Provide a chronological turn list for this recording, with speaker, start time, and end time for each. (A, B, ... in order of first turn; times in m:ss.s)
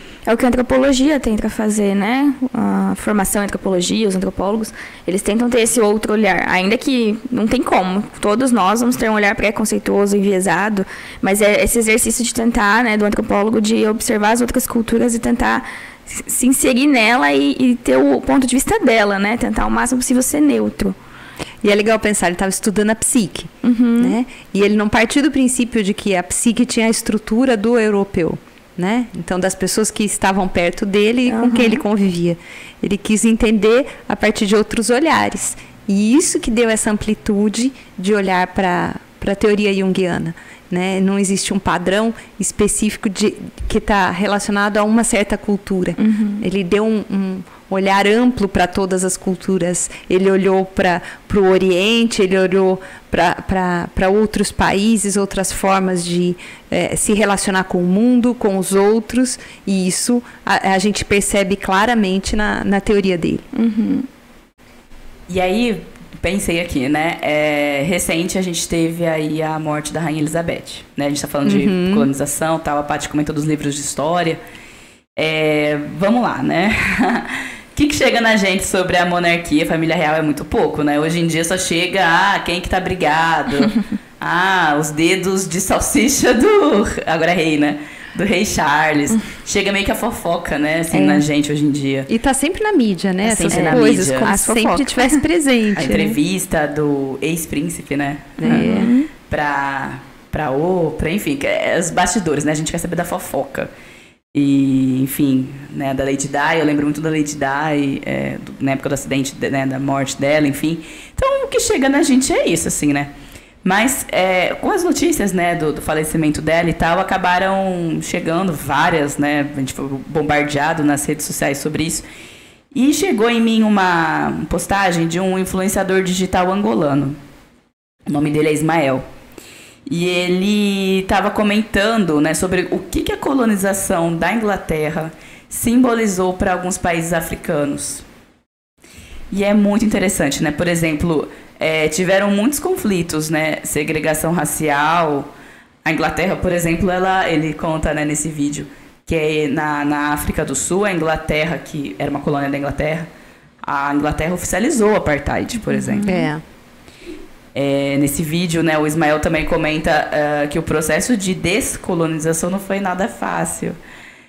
0:00.3-0:21.0 A
0:21.6-1:03.4 B
0:23.6-0:24.2 A
0:31.3-0:31.8 A
0:46.0-0:46.5 A
1:03.5-1:04.1 A
1:05.3-1:14.4 C
1:11.5-1:12.1 B
1:15.2-1:32.1 C
1:30.9-1:31.3 B
1:32.1-1:36.2 B
1:33.2-1:34.3 C
1:33.5-1:35.2 A
1:35.8-1:43.7 C
1:38.4-1:38.9 B
1:38.4-1:39.1 A
1:44.3-1:53.1 C
1:53.6-2:02.1 C
2:02.7-2:07.2 C
2:08.1-2:09.0 C
2:09.9-2:18.0 C
2:19.3-2:25.3 C
2:25.8-2:33.1 C
2:33.6-2:36.1 C
2:35.7-2:36.3 A
2:36.1-2:36.4 B
2:37.6-2:43.8 C